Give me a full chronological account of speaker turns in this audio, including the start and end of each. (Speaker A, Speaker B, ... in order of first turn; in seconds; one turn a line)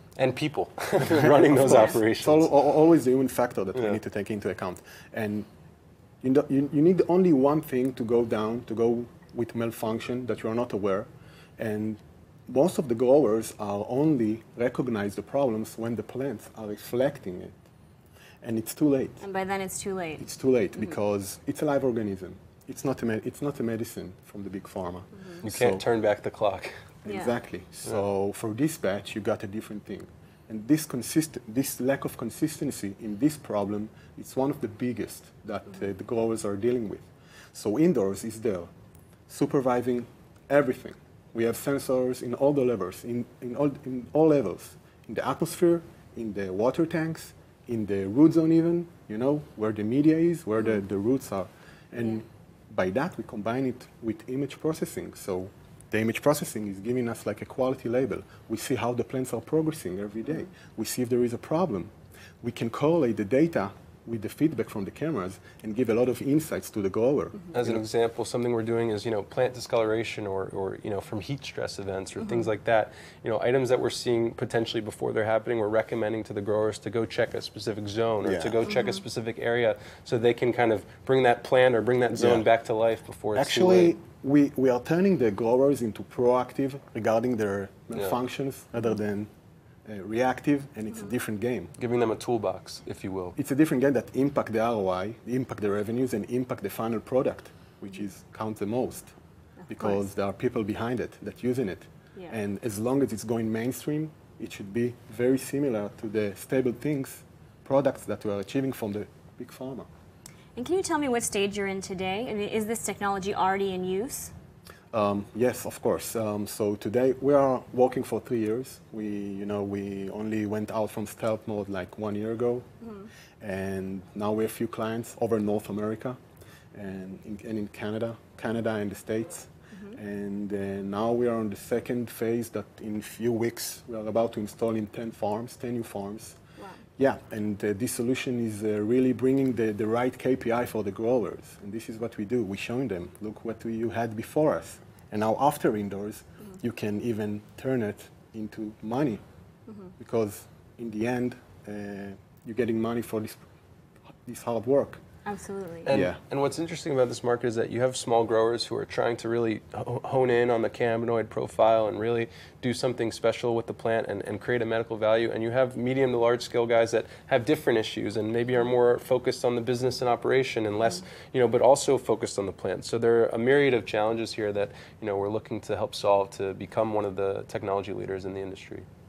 Speaker A: 0.1-2.5
Speaker B: 1.1-5.5
Speaker B: 6.2-17.6
Speaker B: 18.4-19.2
Speaker C: 19.2-20.3
Speaker B: 20.2-25.9
Speaker A: 25.4-26.8
Speaker B: 27.0-38.7
Speaker C: 27.1-27.3
Speaker B: 39.3-67.8
Speaker A: 67.5-83.9
Speaker B: 78.2-78.6
Speaker C: 78.7-79.0
Speaker B: 82.1-82.5
Speaker B: 83.3-89.3
Speaker B: 89.8-91.7
Speaker A: 91.8-93.3
Speaker B: 93.3-99.1
Speaker C: 99.6-100.0
Speaker B: 99.7-109.9
Speaker C: 110.5-114.3
Speaker B: 114.9-122.7
Speaker B: 123.4-126.2
Speaker B: 126.7-136.4
Speaker B: 137.0-149.2
Speaker B: 150.0-153.4
Speaker B: 154.2-155.0
Speaker C: 155.2-155.9
Speaker A: 155.8-178.8
Speaker B: 155.9-156.2